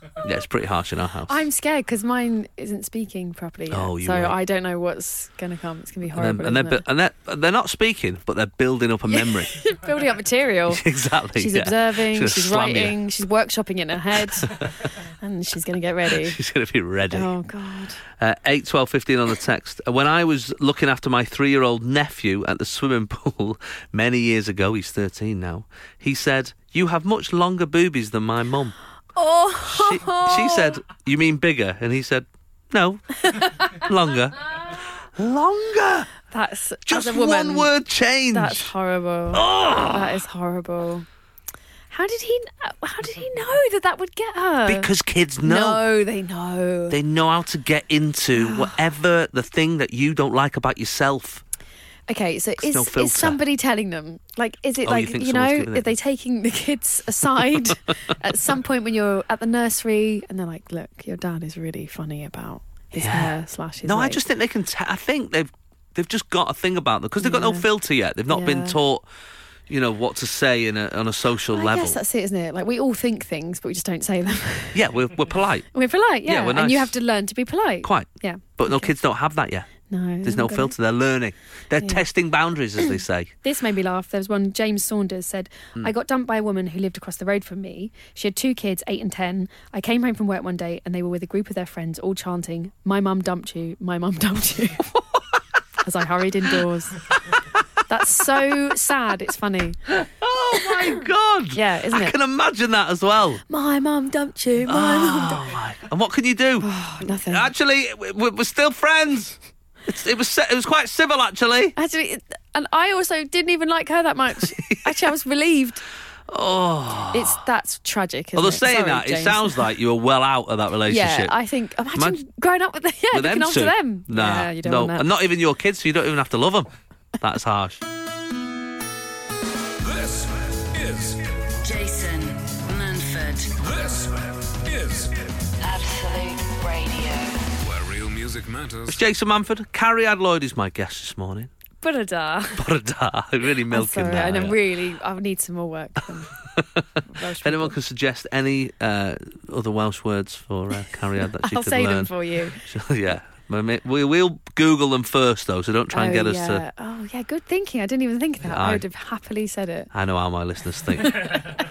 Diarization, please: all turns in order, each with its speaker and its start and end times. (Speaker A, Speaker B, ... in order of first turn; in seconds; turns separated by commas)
Speaker A: 0.2-1.4, Speaker B: 1.3-6.8, Speaker A: 3.7-4.4, Speaker A: 6.1-9.6, Speaker B: 9.1-10.8, Speaker A: 10.7-13.0, Speaker B: 11.3-16.4, Speaker A: 14.2-14.8, Speaker A: 16.0-17.3, Speaker B: 17.1-18.0, Speaker A: 18.2-28.8, Speaker B: 29.1-30.7, Speaker A: 29.6-36.1, Speaker B: 33.2-33.8, Speaker B: 36.3-37.7, Speaker A: 36.9-38.7, Speaker B: 38.3-41.0, Speaker A: 39.3-40.2, Speaker B: 41.9-44.9, Speaker A: 44.6-45.8, Speaker B: 45.4-47.0, Speaker A: 46.9-51.4, Speaker B: 48.4-48.8, Speaker B: 52.1-64.2, Speaker A: 52.6-53.4, Speaker A: 54.8-55.9, Speaker A: 63.0-69.0, Speaker B: 67.2-67.7, Speaker B: 68.3-68.8, Speaker A: 69.7-72.0, Speaker B: 71.5-74.8, Speaker A: 74.7-75.7, Speaker B: 75.7-78.9, Speaker A: 76.2-76.9, Speaker A: 77.8-79.7, Speaker B: 79.9-80.7, Speaker A: 80.2-83.3, Speaker B: 83.4-94.9, Speaker B: 95.8-97.0, Speaker A: 97.3-97.6, Speaker B: 97.9-99.8, Speaker A: 99.9-103.4, Speaker B: 101.5-102.1, Speaker B: 103.5-105.5, Speaker A: 104.7-111.7, Speaker B: 106.6-107.5, Speaker B: 111.8-115.8, Speaker A: 114.4-115.0, Speaker A: 116.3-117.4, Speaker B: 117.1-119.7, Speaker A: 118.3-121.3, Speaker B: 120.9-125.1, Speaker A: 121.9-122.2, Speaker A: 123.1-127.8, Speaker C: 129.8-131.5, Speaker D: 131.6-133.5, Speaker C: 133.6-135.5, Speaker D: 135.6-137.5, Speaker C: 137.6-139.0, Speaker A: 138.9-141.5, Speaker B: 141.8-142.7, Speaker A: 142.6-144.7, Speaker B: 143.7-146.3, Speaker A: 146.4-156.6, Speaker B: 147.1-147.8, Speaker B: 151.4-152.6, Speaker B: 155.9-159.9, Speaker A: 158.4-158.8, Speaker A: 159.9-161.5, Speaker B: 161.1-161.4